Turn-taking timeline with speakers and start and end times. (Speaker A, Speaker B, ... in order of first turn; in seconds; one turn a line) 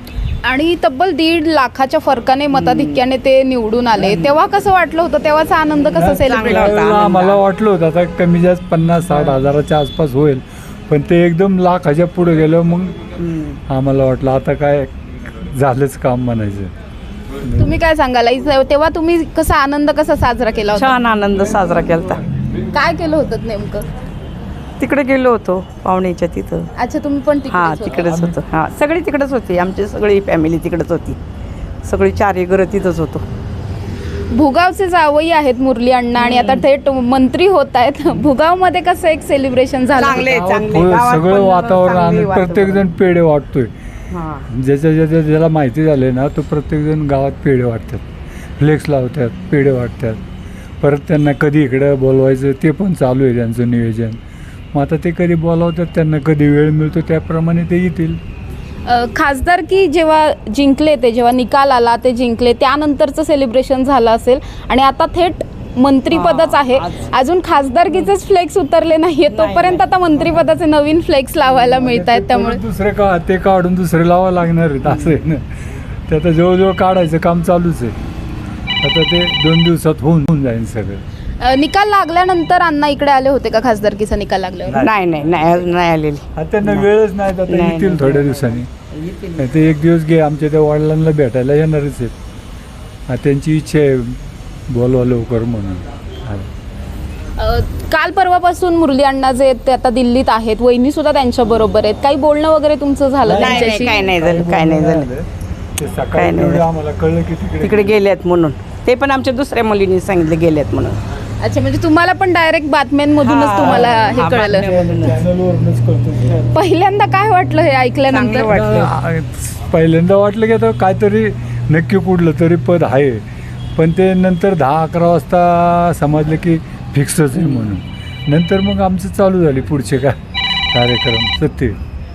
Speaker A: 0.4-6.8
Speaker B: 2.5-3.1
Speaker B: 4.0-4.4
Speaker B: 5.7-7.4
Speaker C: 6.0-13.0
Speaker B: 13.2-13.6
Speaker C: 13.7-16.7
Speaker C: 17.4-17.7
Speaker A: 17.6-21.0
Speaker B: 20.8-22.2
Speaker A: 22.7-23.9
Speaker B: 24.8-26.7
Speaker A: 26.8-28.3
Speaker B: 27.5-31.2
Speaker B: 31.8-33.2
Speaker A: 34.3-40.3
Speaker B: 36.2-36.6
Speaker B: 40.0-42.9
Speaker C: 40.2-43.7
Speaker B: 44.1-44.5
Speaker C: 44.5-48.0
Speaker C: 48.6-50.2
Speaker C: 50.8-54.2
Speaker C: 54.7-58.2
Speaker A: 58.9-72.6
Speaker B: 66.1-67.1
Speaker B: 67.9-68.1
Speaker B: 69.3-70.4
Speaker B: 71.5-71.8
Speaker C: 71.7-75.5
Speaker B: 74.8-75.2
Speaker C: 76.1-78.0
Speaker C: 78.8-81.0
Speaker A: 81.4-84.8
Speaker C: 84.7-85.7
Speaker B: 84.8-86.9
Speaker C: 86.3-88.7
Speaker B: 87.5-89.5
Speaker C: 89.4-92.2
Speaker C: 93.1-94.2
Speaker C: 94.7-96.5
Speaker A: 97.4-104.1
Speaker C: 103.2-108.0
Speaker B: 103.4-105.1
Speaker B: 106.1-106.7
Speaker B: 107.6-111.0
Speaker A: 111.4-114.7
Speaker B: 113.2-115.2
Speaker C: 113.6-116.5
Speaker A: 116.5-118.5
Speaker B: 118.1-118.9
Speaker C: 118.4-123.2
Speaker C: 123.8-130.2
Speaker B: 127.4-127.8
Speaker C: 130.7-131.8